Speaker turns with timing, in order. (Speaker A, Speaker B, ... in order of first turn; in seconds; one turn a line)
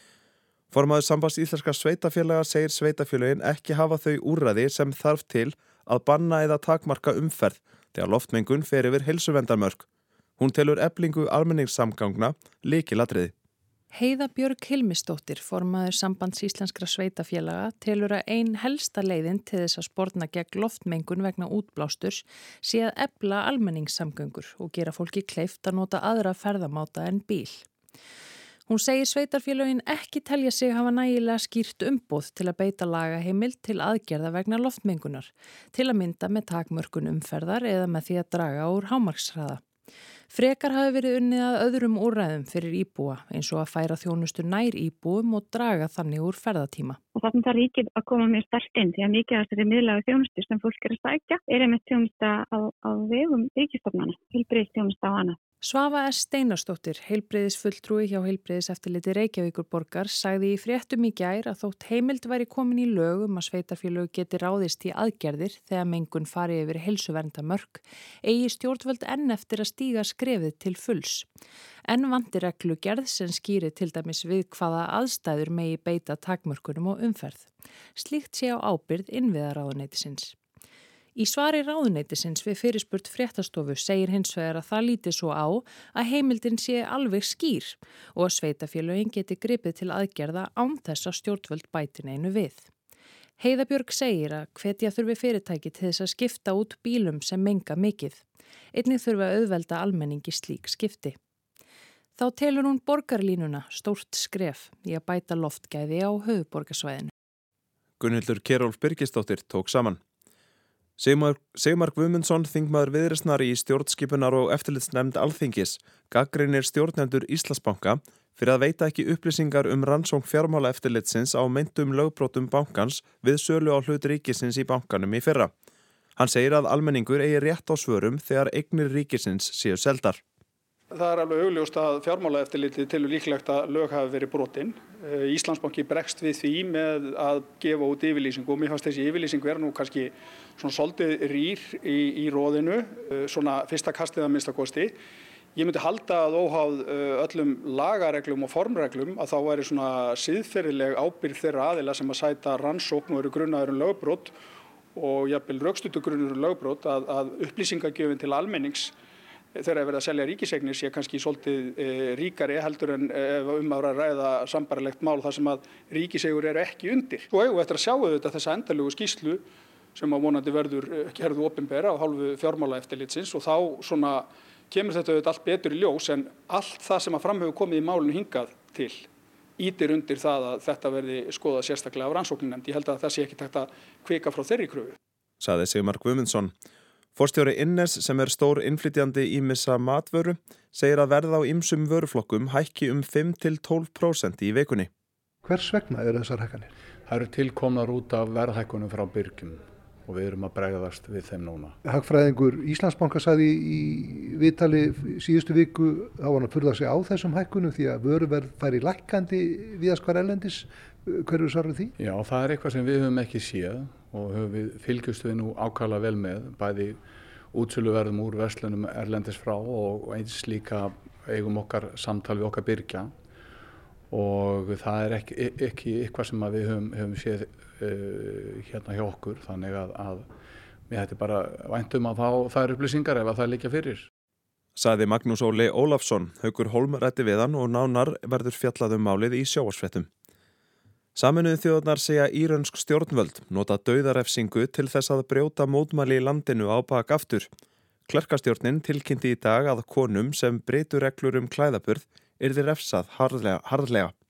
Speaker A: 0.7-9.8
Speaker A: 10.4-13.3
Speaker B: 13.9-27.7
Speaker B: 28.7-39.6
Speaker B: 40.3-47.0
Speaker C: 47.1-55.4
Speaker B: 55.6-71.3
Speaker B: 71.9-80.3
Speaker B: 81.2-92.7
Speaker B: 93.4-98.2
Speaker B: 98.7-101.2
Speaker B: 102.2-107.1
Speaker A: 108.0-110.0
Speaker A: 111.0-125.5
Speaker A: 126.2-130.2
Speaker D: 130.9-144.9
Speaker D: 145.5-154.3
Speaker D: 154.9-158.9
Speaker D: 159.6-169.4
Speaker D: 169.9-179.1
Speaker D: 179.6-185.0
Speaker A: 185.4-186.5
Speaker A: 187.2-194.9
Speaker E: 195.4-196.7
Speaker F: 197.1-201.8
Speaker E: 201.8-211.9
Speaker F: 212.0-223.1
Speaker F: 224.1-230.3
Speaker F: 230.9-234.1
Speaker A: 234.8-240.1
Speaker A: 241.2-247.5
Speaker A: 248.1-254.1